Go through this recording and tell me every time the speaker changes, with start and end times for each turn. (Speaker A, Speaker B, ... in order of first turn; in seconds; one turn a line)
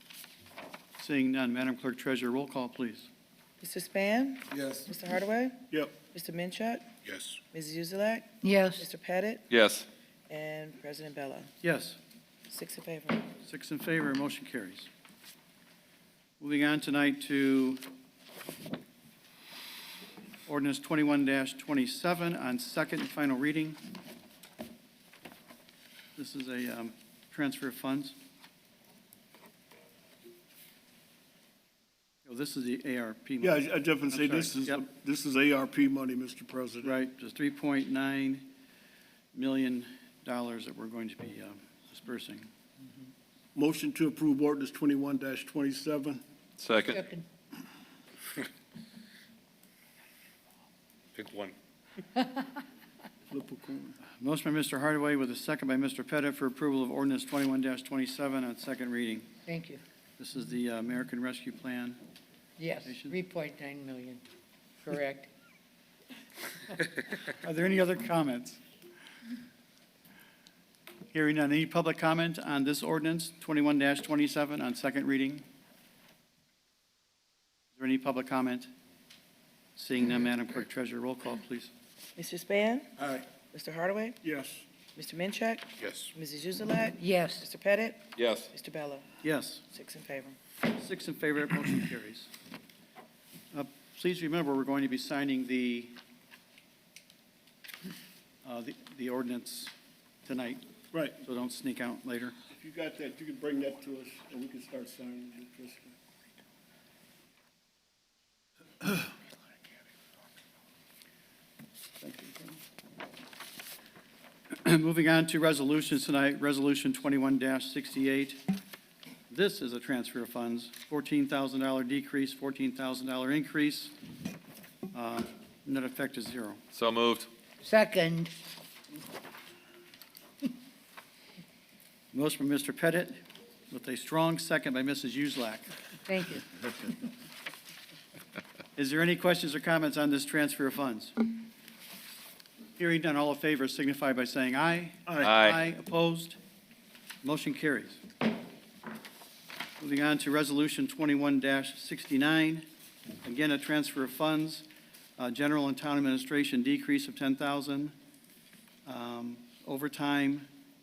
Speaker A: 1.0-3.1
Speaker B: 3.6-6.9
Speaker C: 5.7-6.0
Speaker B: 7.5-9.5
Speaker D: 8.4-8.8
Speaker E: 9.5-9.9
Speaker B: 10.3-11.5
Speaker A: 11.6-12.0
Speaker B: 12.5-13.3
Speaker A: 13.4-14.9
Speaker A: 16.4-17.8
Speaker A: 20.4-23.8
Speaker A: 26.1-28.2
Speaker A: 32.2-34.8
Speaker C: 33.4-37.0
Speaker A: 36.8-38.5
Speaker A: 39.3-42.5
Speaker C: 43.5-46.2
Speaker E: 46.6-47.0
Speaker D: 46.8-47.2
Speaker D: 52.2-52.5
Speaker C: 53.3-54.0
Speaker A: 54.2-59.3
Speaker D: 59.5-59.8
Speaker A: 60.2-62.0
Speaker D: 62.6-64.2
Speaker A: 62.8-63.2
Speaker D: 64.8-65.3
Speaker A: 67.4-68.6
Speaker A: 71.1-75.4
Speaker A: 77.8-78.7
Speaker A: 79.8-81.7
Speaker B: 82.2-84.2
Speaker C: 84.2-84.6
Speaker B: 85.0-89.0
Speaker D: 87.0-87.5
Speaker E: 88.2-88.5
Speaker A: 89.2-89.6
Speaker B: 89.7-90.4
Speaker A: 90.7-92.3
Speaker A: 93.5-96.0
Speaker A: 98.4-99.7
Speaker A: 100.2-102.3
Speaker C: 102.5-105.9
Speaker A: 112.0-112.6
Speaker A: 114.5-118.4
Speaker A: 119.3-123.9
Speaker A: 124.9-126.6
Speaker E: 126.7-127.3
Speaker D: 127.6-128.3
Speaker A: 132.1-133.2
Speaker A: 133.7-135.8
Speaker D: 136.1-136.4
Speaker A: 138.8-141.3
Speaker A: 142.8-146.4
Speaker E: 145.2-145.6
Speaker A: 147.2-148.0
Speaker A: 149.8-152.7
Speaker A: 153.2-154.7
Speaker A: 155.2-157.9
Speaker A: 158.8-160.5